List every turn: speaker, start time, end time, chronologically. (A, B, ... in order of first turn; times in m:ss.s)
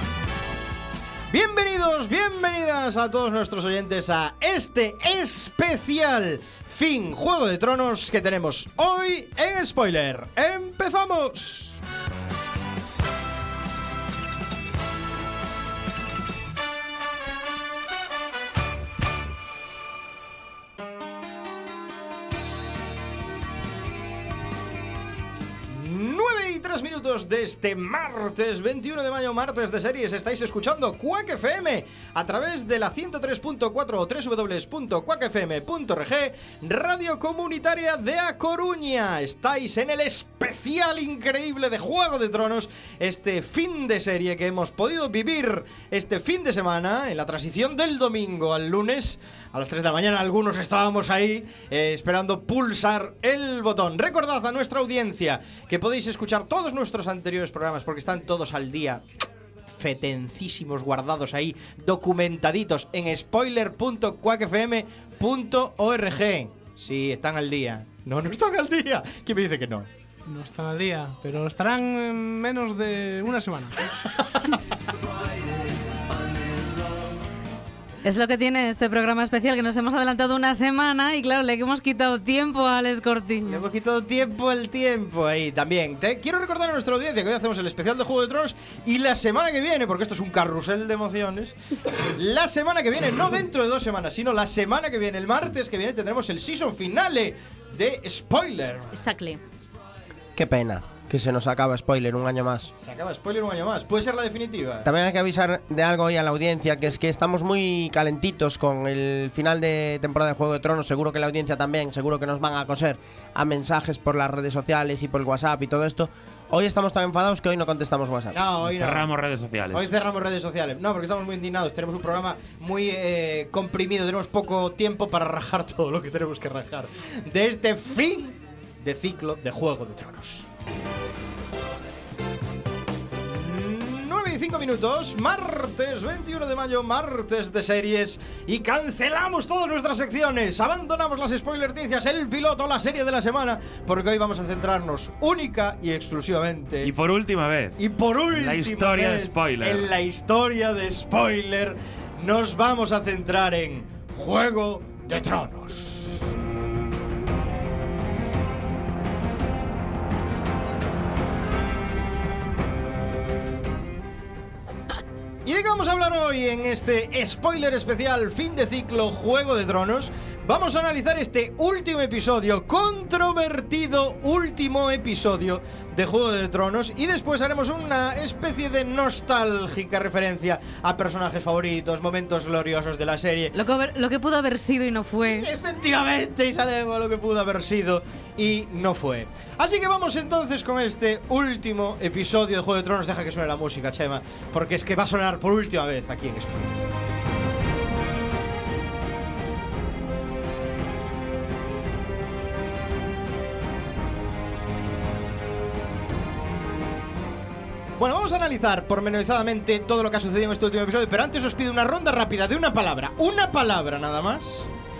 0:01.3-0:11.8 A
0:25.7-0:59.0 A
0:59.7-1:09.9 A
1:10.3-1:13.8 B
1:18.0-1:23.7 C
1:23.5-1:38.9 A
1:38.9-1:39.4 C
1:40.3-1:42.7 D
1:42.8-1:44.9 A
1:44.8-1:58.4 D
1:58.3-1:59.1 A
1:58.6-1:59.9 E
1:59.7-2:10.5 A
2:13.2-2:26.9 A
2:26.8-2:29.9 E
2:27.8-2:36.3 A
2:45.4-3:03.5 A
3:03.5-3:05.5 C
3:05.2-3:16.8 A
3:28.0-3:34.7 A